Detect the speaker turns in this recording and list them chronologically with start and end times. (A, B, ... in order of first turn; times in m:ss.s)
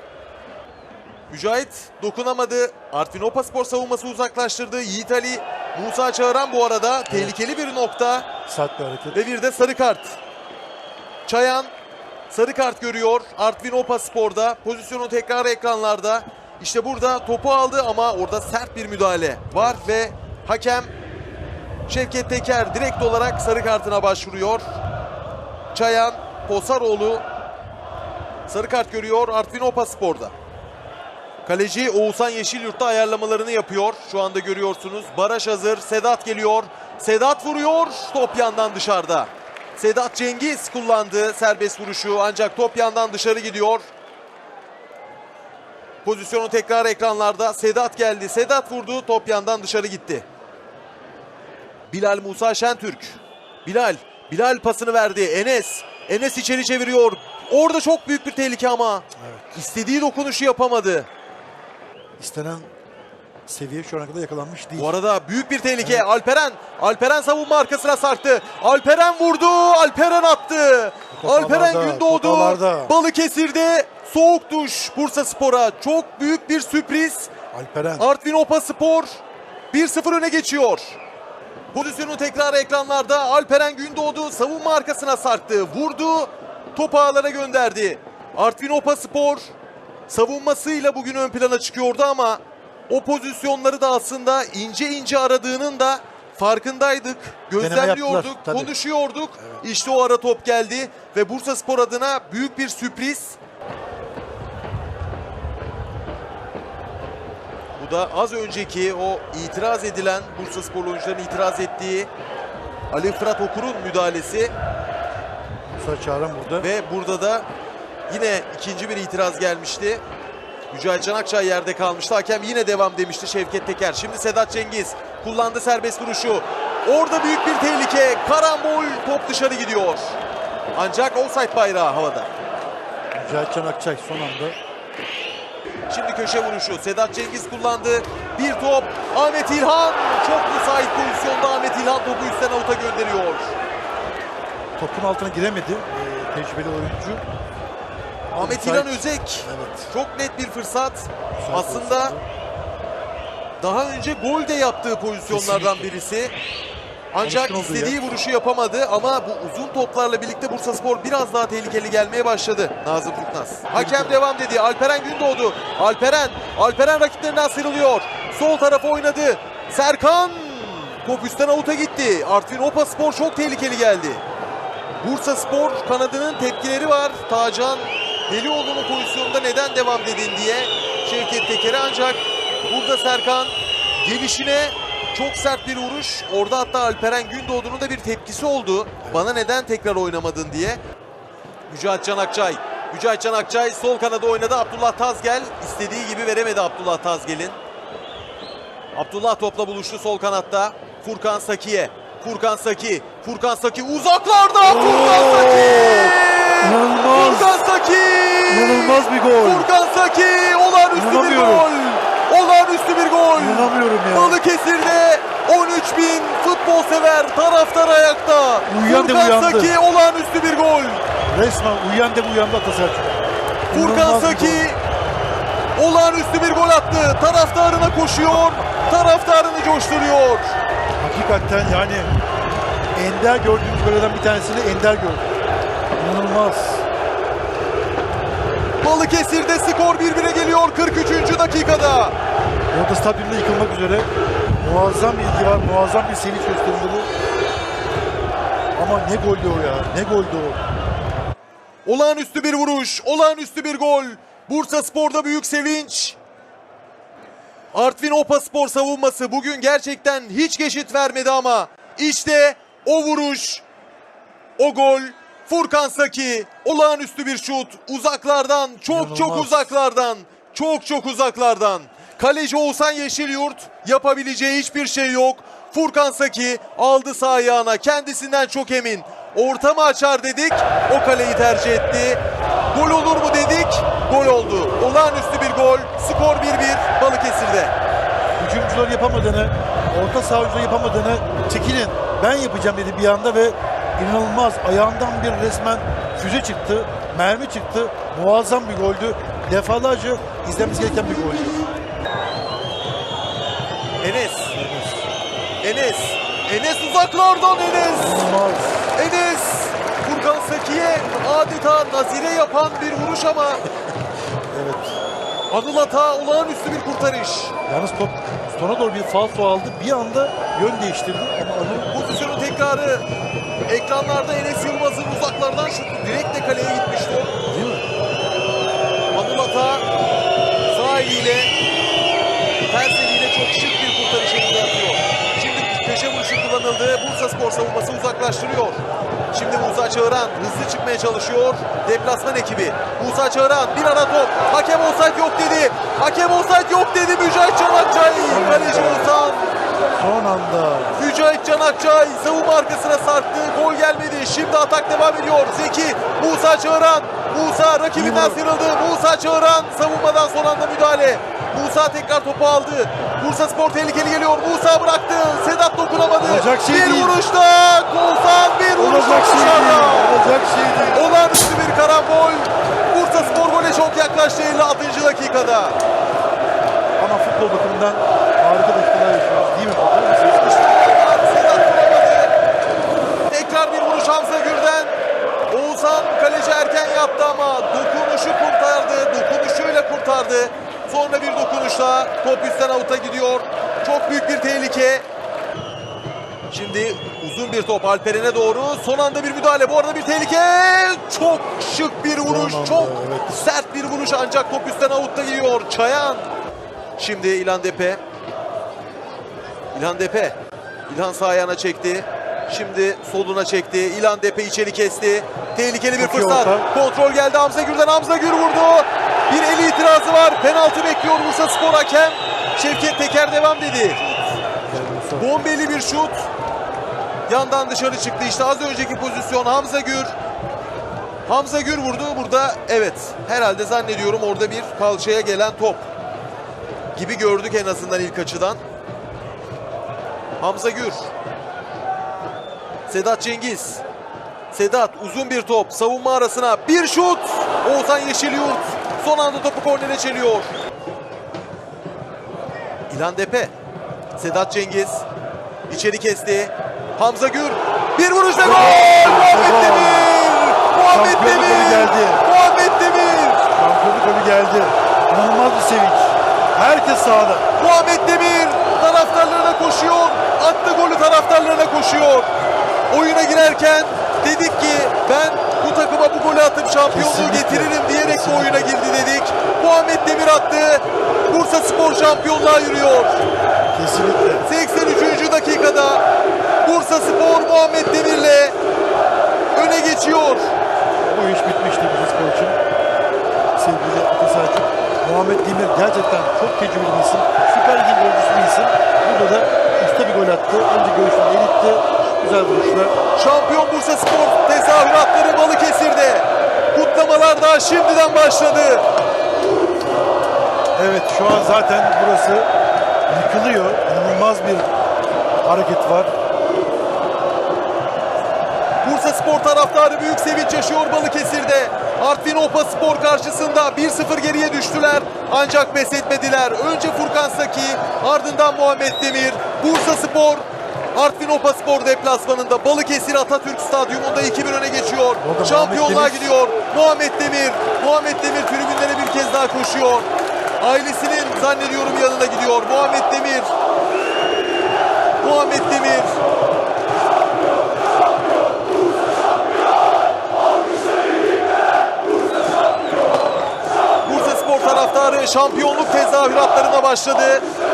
0:01.3-0:08.3 A
0:07.1-0:07.3 B
0:08.5-0:09.2 B
0:09.1-0:10.2 A
0:11.2-0:11.7 A
0:12.3-0:20.9 A
0:21.9-0:24.6 A
0:25.7-0:27.2 A
0:28.5-0:30.3 A
0:31.4-0:43.8 A
0:46.0-0:50.2 A
0:51.9-1:01.1 A
0:59.2-0:59.5 B
1:02.2-1:02.7 B
1:03.4-1:04.9 B
1:04.8-1:17.3 A
1:05.8-1:06.0 B
1:11.1-1:12.9 B
1:17.5-1:18.1 B
1:18.0-1:19.2 A
1:19.7-1:21.0 A
1:21.7-1:29.4 A
1:30.1-1:43.4 A
1:37.6-1:38.7 B
1:47.8-1:52.1 A
1:52.9-1:54.5 A
1:55.8-1:56.7 B
1:56.6-1:57.5 A
1:58.1-2:00.0 A
2:00.7-2:10.2 A
2:10.7-2:12.3 A
2:13.1-2:14.6 B
2:15.9-2:23.6 A
2:24.8-2:27.2 B
2:28.3-2:29.9 B
2:28.4-2:32.2 A
2:31.4-2:32.2 B
2:33.6-2:36.4 A
2:35.3-2:35.9 B
2:37.1-2:54.2 A
2:37.2-2:38.0 B
2:43.7-2:44.2 B
2:55.0-3:10.8 A
3:11.7-3:17.6 A
3:18.9-3:41.0 A
3:24.6-3:27.5 B
3:28.5-3:29.7 B
3:30.9-3:31.7 B
3:33.4-3:34.4 B
3:38.7-3:39.7 B
3:41.3-3:43.2 B
3:43.7-3:44.7 B
3:43.7-3:44.8 A
3:45.8-3:50.6 A
3:48.3-3:48.6 B
3:51.0-3:52.1 B
3:52.9-3:55.3 B
3:56.0-3:56.9 B
3:58.8-4:02.2 A
4:02.7-4:07.1 B
4:08.8-4:10.6 B
4:11.8-4:16.2 A
4:17.7-4:23.6 A
4:24.6-4:42.2 A
4:28.9-4:29.7 B
4:42.7-4:47.7 A
4:48.4-5:01.7 B
5:04.0-5:04.5 A
5:04.5-5:05.0 B
5:05.6-5:08.3 A
5:08.0-5:08.9 B
5:08.9-5:13.7 A
5:14.5-5:15.0 B
5:15.5-5:17.5 A
5:17.7-5:21.9 B
5:21.9-5:23.1 A
5:23.7-5:27.4 A
5:27.5-5:27.8 B
5:29.1-5:29.8 A
5:30.7-5:31.5 A
5:32.7-5:49.5 A
5:48.3-5:49.1 B
5:49.9-5:51.0 B
5:50.9-6:10.2 A
5:57.9-5:58.4 B
6:06.2-6:07.2 B
6:08.8-6:11.0 B
6:10.9-6:15.8 A
6:17.0-6:20.6 B
6:20.2-6:22.3 A
6:23.3-6:25.0 A
6:25.5-6:35.0 A
6:36.5-6:46.3 A
6:42.2-6:43.4 B
6:47.0-6:48.0 A
6:49.7-6:50.4 A
6:50.9-7:04.2 A
6:56.0-6:56.7 B
7:04.7-7:05.3 B
7:05.2-7:06.2 A
7:07.3-7:10.1 A
7:11.3-7:15.8 A
7:16.9-7:18.6 A
7:20.4-7:21.1 A
7:22.9-7:23.8 A
7:24.5-7:30.5 A
7:32.9-7:33.5 A
7:34.2-7:35.0 A
7:35.7-7:43.4 A
7:38.4-7:40.1 B
7:40.9-7:42.2 B
7:43.5-7:47.4 B
7:47.6-7:52.3 A
7:52.9-8:03.2 A
7:56.9-7:58.7 B
8:03.7-8:04.4 B
8:04.4-8:06.0 A
8:06.6-8:08.5 A
8:09.5-8:10.5 A
8:11.0-8:12.6 B
8:13.6-8:23.0 B
8:23.1-8:28.8 A
8:30.8-8:32.5 B
8:33.1-8:34.7 B
8:35.4-8:36.1 B
8:38.8-9:00.1 A
8:55.2-8:56.3 B
9:00.6-9:03.5 A
9:05.2-9:06.2 A
9:14.0-9:17.4 A